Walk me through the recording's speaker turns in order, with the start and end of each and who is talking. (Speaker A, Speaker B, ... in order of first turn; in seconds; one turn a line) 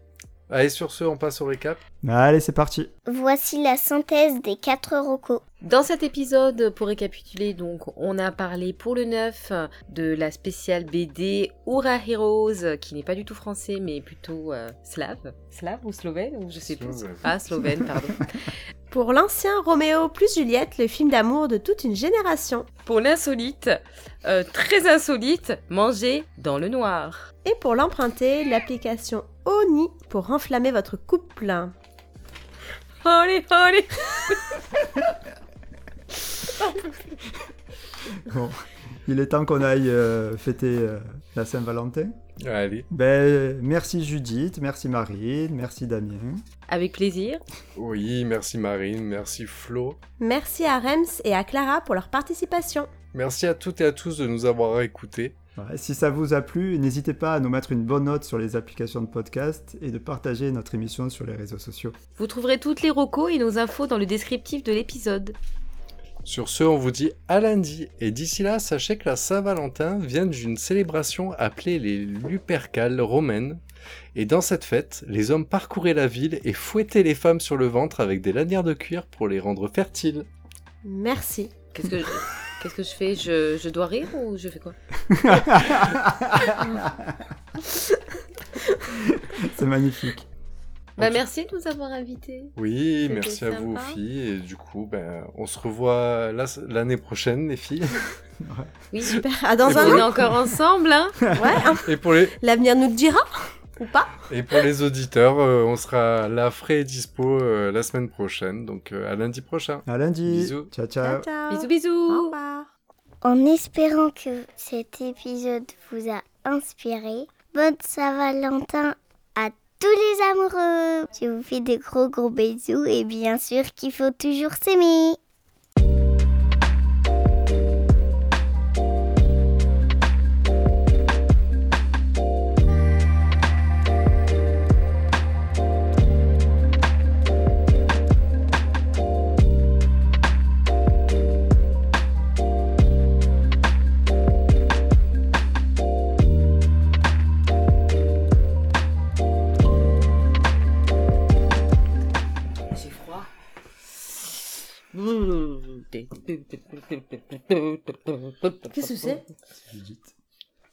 Speaker A: 0.5-1.8
Speaker B: 2.0-2.9
Speaker C: 3.1-5.4
Speaker D: 5.6-18.5
Speaker A: 16.7-17.3
Speaker E: 18.9-22.7
Speaker D: 22.9-27.2
Speaker E: 27.4-31.7
Speaker D: 33.0-34.6
Speaker B: 38.1-42.1
Speaker A: 42.4-42.9
Speaker B: 42.9-46.4
Speaker D: 46.7-47.4
Speaker A: 47.8-50.0
Speaker E: 50.2-52.9
Speaker A: 53.1-55.4
Speaker B: 55.6-62.0
Speaker D: 62.2-65.4
Speaker A: 66.2-73.6
Speaker A: 74.2-80.3
Speaker E: 80.8-81.5
Speaker D: 81.7-84.8
Speaker B: 85.1-87.2
Speaker B: 89.1-90.3
Speaker D: 91.0-92.5
Speaker A: 92.6-98.1
Speaker D: 93.0-94.0
Speaker B: 98.4-98.8
Speaker D: 98.9-101.2
Speaker E: 99.0-100.1
Speaker A: 99.6-100.3
Speaker B: 101.2-101.6
Speaker E: 101.3-104.3
Speaker A: 101.8-102.4
Speaker A: 104.3-110.7
Speaker B: 109.9-111.3
Speaker E: 111.0-112.7
Speaker D: 111.5-112.3
Speaker C: 113.2-125.2
Speaker D: 152.7-153.3
Speaker D: 154.9-159.2
Speaker E: 158.7-159.2
Speaker B: 159.6-160.1